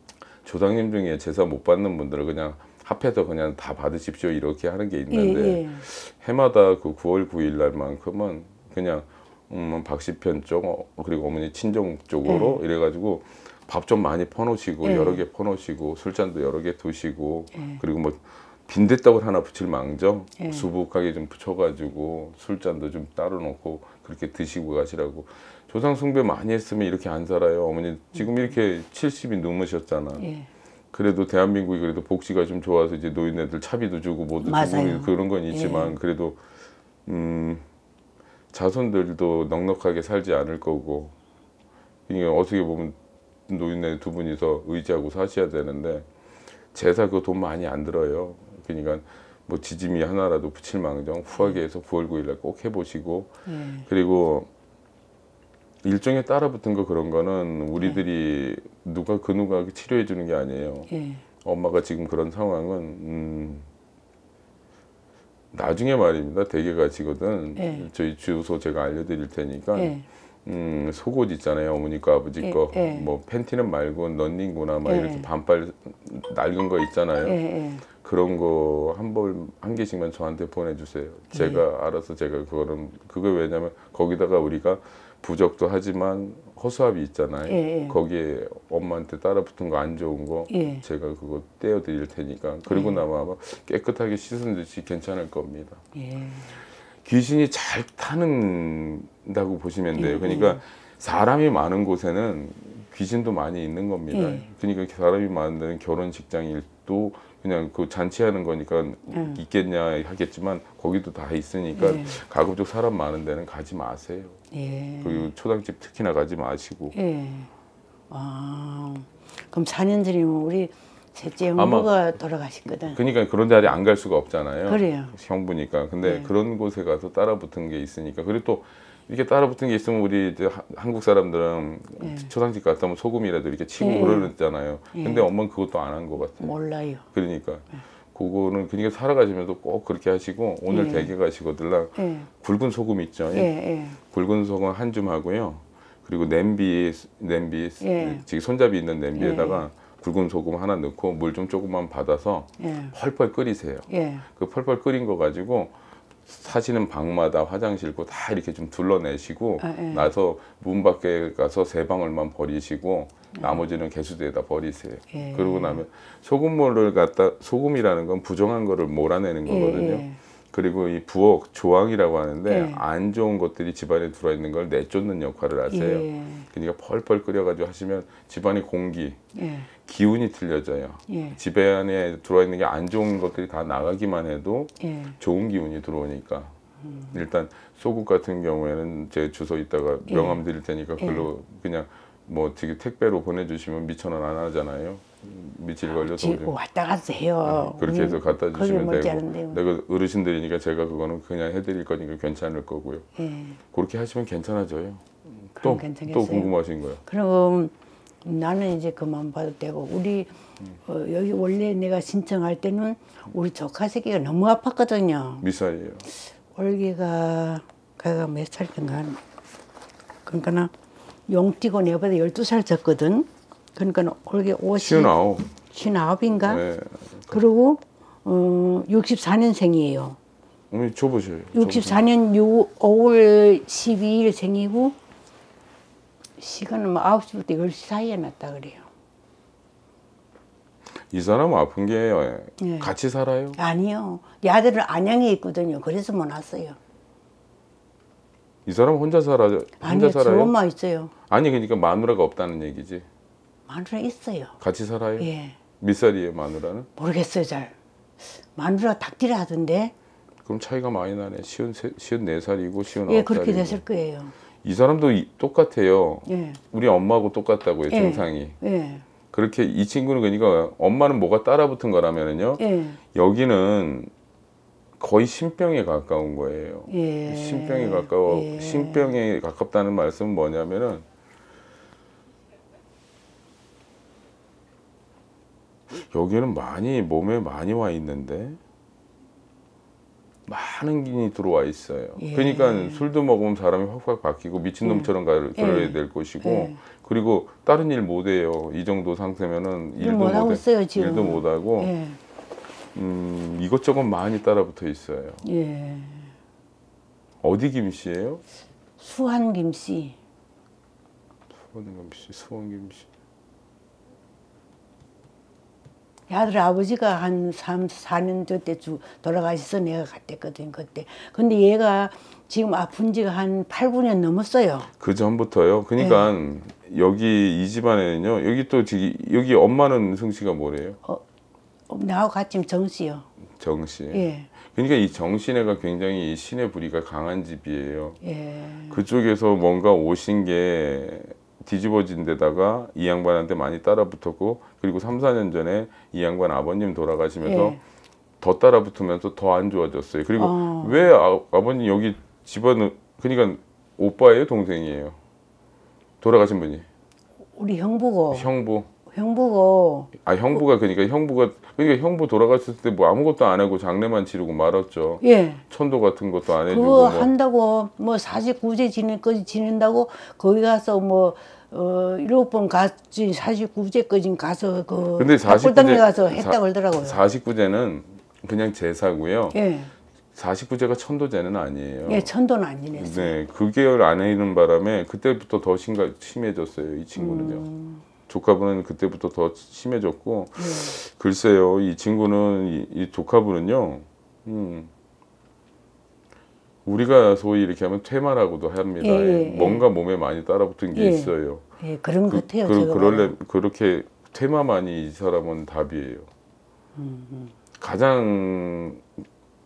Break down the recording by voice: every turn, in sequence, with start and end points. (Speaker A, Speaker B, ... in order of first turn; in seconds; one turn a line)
Speaker A: 0.4-30.3
Speaker B: 5.1-5.8
Speaker B: 12.2-12.6
Speaker B: 14.8-15.2
Speaker B: 17.5-17.8
Speaker B: 20.4-20.7
Speaker B: 30.2-30.5
Speaker A: 30.9-36.4
Speaker B: 34.4-36.0
Speaker A: 37.1-37.6
Speaker A: 38.5-41.1
Speaker A: 42.1-43.0
Speaker A: 43.5-46.1
Speaker A: 46.7-53.3
Speaker B: 53.5-53.9
Speaker A: 53.9-54.5
Speaker A: 55.8-60.9
Speaker B: 60.9-61.2
Speaker A: 61.4-63.7
Speaker A: 65.5-77.4
Speaker B: 67.6-67.9
Speaker B: 69.7-70.1
Speaker B: 72.4-73.1
Speaker B: 74.8-75.3
Speaker B: 77.2-77.8
Speaker A: 78.0-95.8
Speaker B: 81.3-81.6
Speaker B: 87.5-88.0
Speaker B: 90.5-90.8
Speaker B: 92.7-93.0
Speaker B: 95.9-96.6
Speaker A: 97.0-114.4
Speaker B: 100.0-100.6
Speaker B: 104.1-104.5
Speaker B: 109.1-109.4
Speaker B: 111.7-112.2
Speaker B: 114.5-115.3
Speaker A: 115.0-117.0
Speaker B: 116.9-117.5
Speaker B: 118.1-123.0
Speaker A: 121.6-121.9
Speaker A: 122.9-136.5
Speaker B: 124.7-125.1
Speaker B: 126.0-126.3
Speaker B: 132.0-132.3
Speaker B: 133.8-134.3
Speaker B: 134.9-135.3
Speaker B: 136.4-137.1
Speaker A: 137.1-155.7
Speaker B: 140.7-141.1
Speaker B: 142.0-142.3
Speaker B: 143.3-144.0
Speaker B: 147.8-148.2
Speaker B: 149.2-149.7
Speaker B: 152.6-152.9
Speaker B: 153.9-154.3
Speaker A: 156.3-179.2
Speaker B: 159.6-160.1
Speaker B: 165.1-165.8
Speaker B: 169.5-170.2
Speaker B: 172.5-172.8
Speaker B: 175.7-176.5
Speaker B: 179.3-179.7
Speaker A: 179.8-186.5
Speaker B: 181.1-181.4
Speaker B: 184.8-185.2
Speaker B: 186.9-187.1
Speaker A: 187.1-196.5
Speaker B: 190.1-190.4
Speaker B: 191.0-191.3
Speaker B: 196.0-199.6
Speaker A: 197.5-203.1
Speaker B: 203.2-203.6
Speaker A: 203.7-207.0
Speaker B: 205.6-206.5
Speaker B: 207.1-207.7
Speaker B: 208.2-215.4
Speaker A: 215.4-216.1
Speaker B: 216.5-219.2
Speaker B: 220.3-220.7
Speaker B: 221.3-226.6
Speaker A: 224.8-225.5
Speaker A: 226.4-227.4
Speaker B: 227.3-230.2
Speaker A: 230.7-232.1
Speaker B: 231.5-235.0
Speaker B: 236.4-238.9
Speaker A: 241.1-243.6
Speaker B: 242.6-242.9
Speaker B: 243.6-246.8
Speaker A: 248.7-250.5
Speaker B: 249.8-251.1
Speaker A: 251.3-253.1
Speaker B: 253.7-254.6
Speaker A: 254.6-256.9
Speaker B: 255.2-255.6
Speaker B: 257.0-259.9
Speaker A: 260.4-263.8
Speaker B: 263.0-264.3
Speaker A: 264.6-268.6
Speaker B: 266.3-266.6
Speaker B: 267.9-269.1
Speaker A: 269.3-274.1
Speaker B: 272.6-273.0
Speaker A: 275.0-281.1
Speaker B: 276.9-279.1
Speaker A: 285.9-288.6
Speaker A: 290.5-301.9
Speaker B: 292.2-293.1
Speaker B: 294.8-296.8
Speaker B: 300.0-302.2
Speaker A: 302.9-305.4
Speaker B: 305.4-306.3
Speaker A: 307.4-308.4
Speaker B: 309.0-310.2
Speaker A: 311.6-313.1
Speaker B: 316.3-324.9
Speaker A: 325.0-331.0
Speaker B: 326.0-326.3
Speaker B: 331.9-333.3
Speaker A: 333.6-338.2
Speaker B: 334.1-334.5
Speaker B: 338.2-339.0
Speaker A: 338.9-347.8
Speaker B: 347.4-347.8
Speaker A: 348.4-355.2
Speaker B: 350.4-351.0
Speaker A: 356.2-356.9
Speaker B: 357.5-358.5
Speaker A: 358.3-358.9
Speaker B: 359.1-360.1
Speaker A: 360.2-367.3
Speaker B: 365.2-365.6
Speaker B: 366.6-377.2
Speaker A: 375.2-379.6
Speaker B: 379.5-379.9
Speaker A: 380.4-382.3
Speaker B: 382.1-383.4
Speaker A: 383.0-387.7
Speaker B: 387.2-388.0
Speaker A: 388.3-394.9
Speaker B: 390.6-390.9
Speaker A: 396.9-401.6
Speaker B: 399.0-399.9
Speaker B: 400.9-403.3
Speaker A: 402.3-406.3
Speaker B: 407.0-407.5
Speaker A: 407.8-409.0